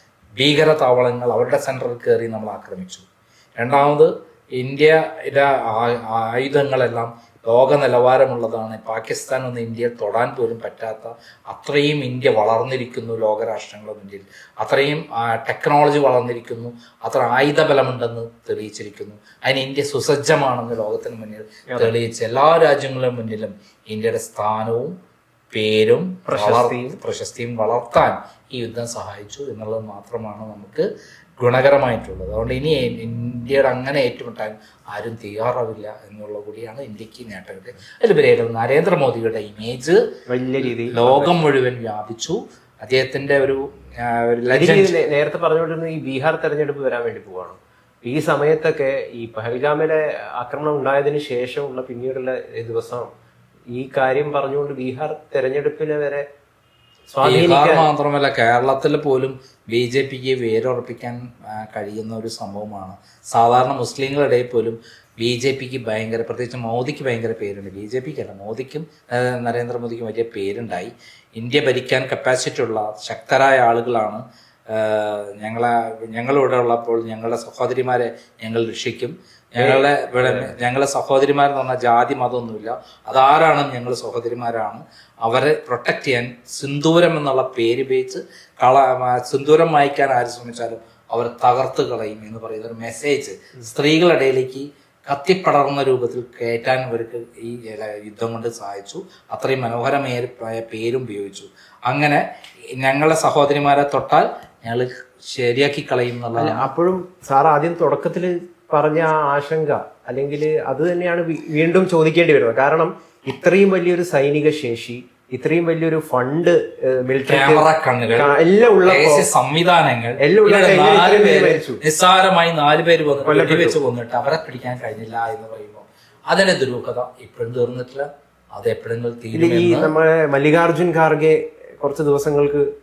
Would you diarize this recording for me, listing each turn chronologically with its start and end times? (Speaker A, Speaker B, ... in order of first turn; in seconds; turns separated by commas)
Speaker A: 0.4-3.0, Speaker A: 3.6-24.9, Speaker A: 25.5-40.0, Speaker B: 26.3-27.0, Speaker B: 40.3-41.3, Speaker A: 40.8-44.9, Speaker B: 44.5-53.1, Speaker B: 53.7-56.2, Speaker B: 57.1-57.9, Speaker A: 57.2-102.2, Speaker B: 79.6-80.6, Speaker A: 102.8-106.7, Speaker B: 106.4-119.3, Speaker A: 117.3-118.3, Speaker A: 118.9-129.9, Speaker B: 120.2-121.8, Speaker B: 123.2-123.8, Speaker B: 129.3-132.7